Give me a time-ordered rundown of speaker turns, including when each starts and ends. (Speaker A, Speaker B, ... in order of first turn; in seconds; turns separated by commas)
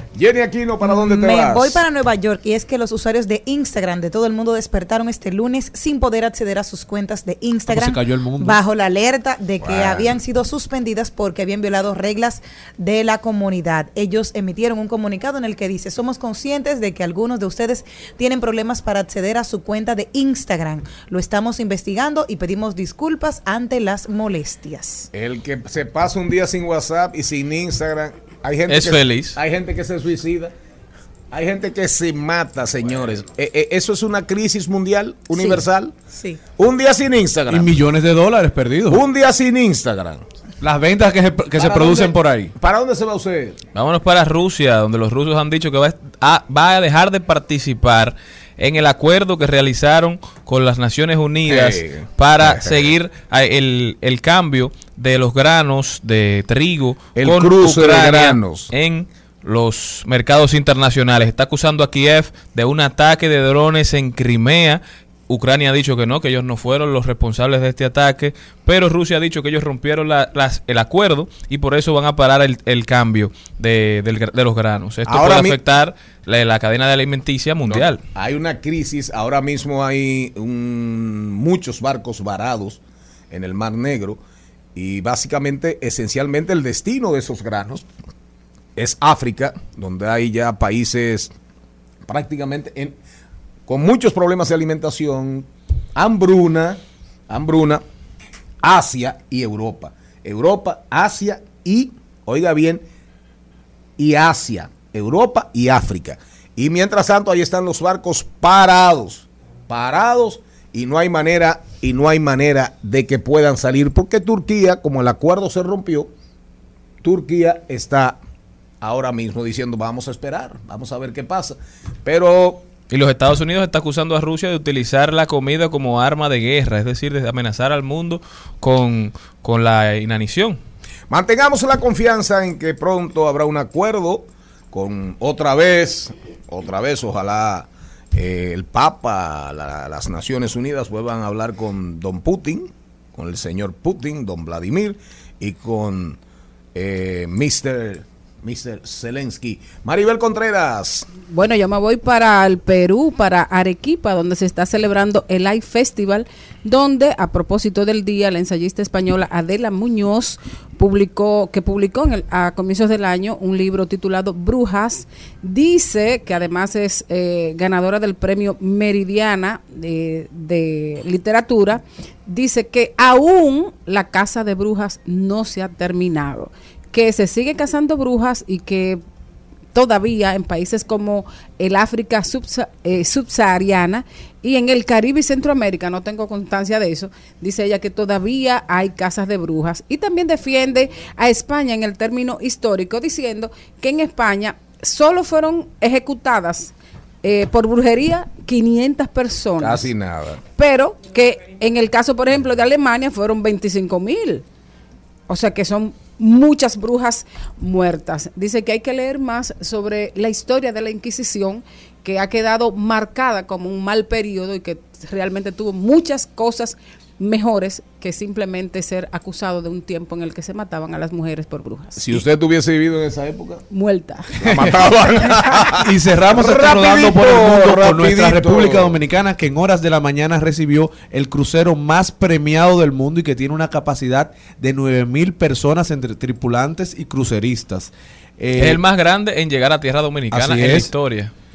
Speaker A: 0.1-1.8, Speaker B: 0.8-25.1, Speaker C: 7.7-8.6, Speaker A: 9.6-10.2, Speaker A: 25.1-30.5, Speaker D: 28.7-29.4, Speaker A: 31.3-35.9, Speaker B: 35.3-35.6, Speaker B: 36.1-36.4, Speaker A: 36.6-37.7, Speaker C: 37.5-39.0, Speaker A: 38.9-40.2, Speaker C: 40.6-42.5, Speaker A: 41.6-43.6, Speaker D: 43.7-78.0, Speaker A: 51.5-53.0, Speaker A: 57.2-58.7, Speaker A: 75.1-75.6, Speaker A: 77.7-84.2, Speaker A: 84.8-87.9, Speaker A: 88.8-91.3, Speaker A: 92.1-93.0, Speaker A: 93.7-97.8, Speaker A: 98.6-102.8, Speaker A: 104.0-116.1, Speaker A: 117.0-118.2, Speaker A: 118.8-122.7, Speaker D: 122.9-130.6, Speaker A: 131.1-146.2, Speaker A: 146.8-151.1, Speaker E: 151.2-179.0, Speaker E: 179.7-199.9, Speaker A: 199.6-200.4, Speaker E: 200.6-204.4, Speaker E: 205.3-222.1, Speaker A: 222.0-223.6, Speaker E: 223.7-224.4, Speaker A: 224.4-229.0, Speaker C: 224.5-224.8, Speaker E: 225.1-225.3, Speaker C: 225.7-238.8, Speaker D: 238.6-241.3, Speaker C: 240.3-240.9